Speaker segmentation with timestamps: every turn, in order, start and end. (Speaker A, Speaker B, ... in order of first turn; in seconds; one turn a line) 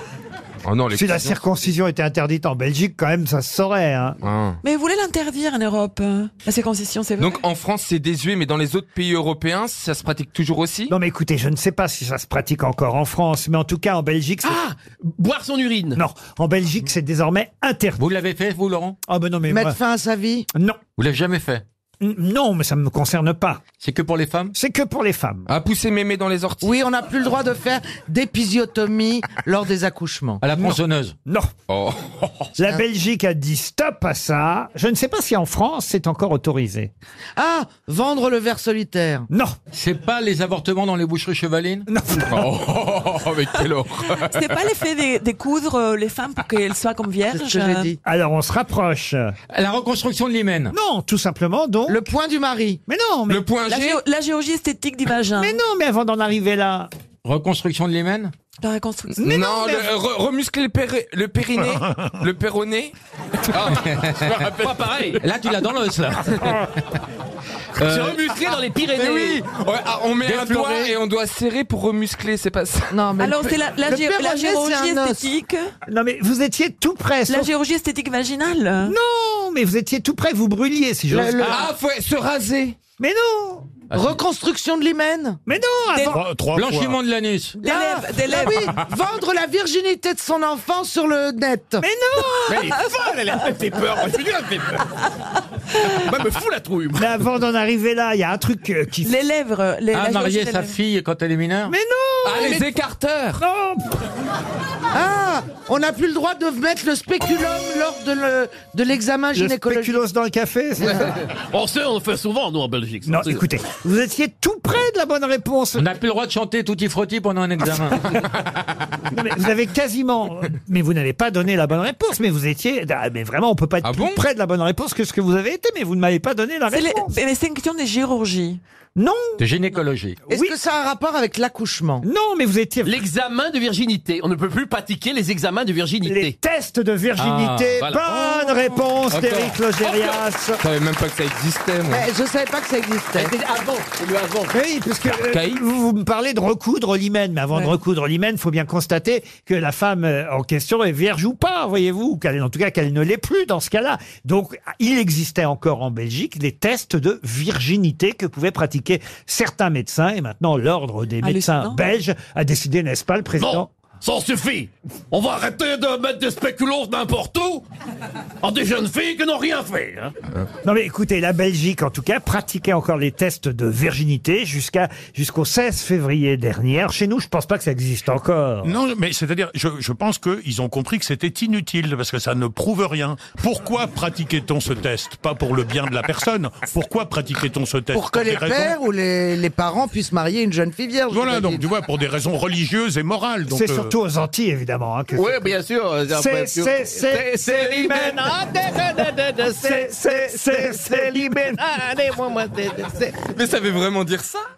Speaker A: 0.7-1.4
Speaker B: 0.9-4.2
Speaker A: 4.2-4.6
Speaker C: 4.6-7.4
Speaker A: 7.2-10.9
Speaker B: 10.9-14.6
Speaker D: 14.4-16.0
Speaker B: 16.0-18.0
Speaker E: 18.0-19.0
Speaker B: 19.1-19.8
Speaker F: 19.5-20.5
Speaker E: 21.0-21.6
Speaker B: 22.0-23.6
Speaker E: 23.8-24.5
Speaker B: 24.5-25.5
Speaker A: 25.5-26.8
Speaker F: 26.6-30.4
Speaker E: 30.4-31.1
Speaker B: 30.6-31.5
Speaker A: 31.7-32.2
Speaker B: 32.6-36.9
Speaker F: 37.4-39.3
Speaker B: 39.3-39.6
Speaker E: 39.7-41.9
Speaker B: 41.9-42.5
Speaker A: 42.3-44.1
Speaker C: 44.0-47.9
Speaker F: 47.3-48.0
Speaker B: 48.0-49.3
Speaker E: 49.5-50.7
Speaker B: 50.7-52.0
Speaker F: 51.9-52.8
Speaker B: 52.9-53.5
Speaker A: 53.3-54.0
Speaker C: 53.7-55.6
Speaker B: 55.4-56.9
Speaker E: 57.2-58.3
Speaker C: 58.6-59.5
Speaker B: 59.2-59.9
Speaker A: 59.2-62.9
Speaker A: 63.5-63.9
Speaker D: 64.2-65.2
Speaker E: 65.2-66.7
Speaker D: 67.8-69.4
Speaker E: 67.8-68.1
Speaker A: 68.9-73.1
Speaker E: 70.2-71.0
Speaker F: 72.9-75.3
Speaker C: 73.2-75.7
Speaker B: 75.9-77.5
Speaker C: 77.3-79.0
Speaker B: 78.8-81.6
Speaker F: 81.1-81.4
Speaker A: 81.4-82.8
Speaker B: 83.0-83.7
Speaker F: 83.9-85.4
Speaker B: 85.5-86.2
Speaker C: 85.9-86.3
Speaker E: 86.5-87.6
Speaker C: 87.6-88.7
Speaker F: 87.6-91.8
Speaker B: 91.8-92.6
Speaker C: 92.2-93.5
Speaker D: 92.5-94.8
Speaker D: 95.9-97.1
Speaker B: 97.0-99.1
Speaker C: 99.0-100.8
Speaker E: 99.9-101.8
Speaker B: 101.7-102.7
Speaker A: 102.2-103.4
Speaker B: 103.4-104.0
Speaker F: 104.9-110.0
Speaker B: 109.3-111.1
Speaker D: 111.5-113.5
Speaker B: 113.1-115.9
Speaker E: 115.7-118.3
Speaker B: 119.1-127.2
Speaker A: 123.8-124.2
Speaker C: 126.7-128.6
Speaker B: 129.0-129.4
Speaker E: 129.4-130.2
Speaker F: 130.3-132.1
Speaker B: 132.0-133.0
Speaker D: 132.8-136.3
Speaker B: 136.0-140.6
Speaker E: 137.2-137.9
Speaker D: 137.8-138.7
Speaker E: 139.1-139.6
Speaker D: 139.8-140.2
Speaker A: 140.6-142.1
Speaker F: 141.9-143.4
Speaker D: 143.2-144.5
Speaker B: 144.5-163.7
Speaker A: 145.1-145.6
Speaker C: 161.2-161.8
Speaker D: 163.4-167.7
Speaker D: 168.4-170.1
Speaker B: 170.7-178.8
Speaker G: 178.6-188.8
Speaker F: 187.9-191.7
Speaker G: 191.1-193.9
Speaker B: 193.5-195.4
Speaker D: 195.2-199.6
Speaker B: 196.1-198.3
Speaker B: 199.6-201.6
Speaker D: 201.8-202.1
Speaker A: 203.3-204.4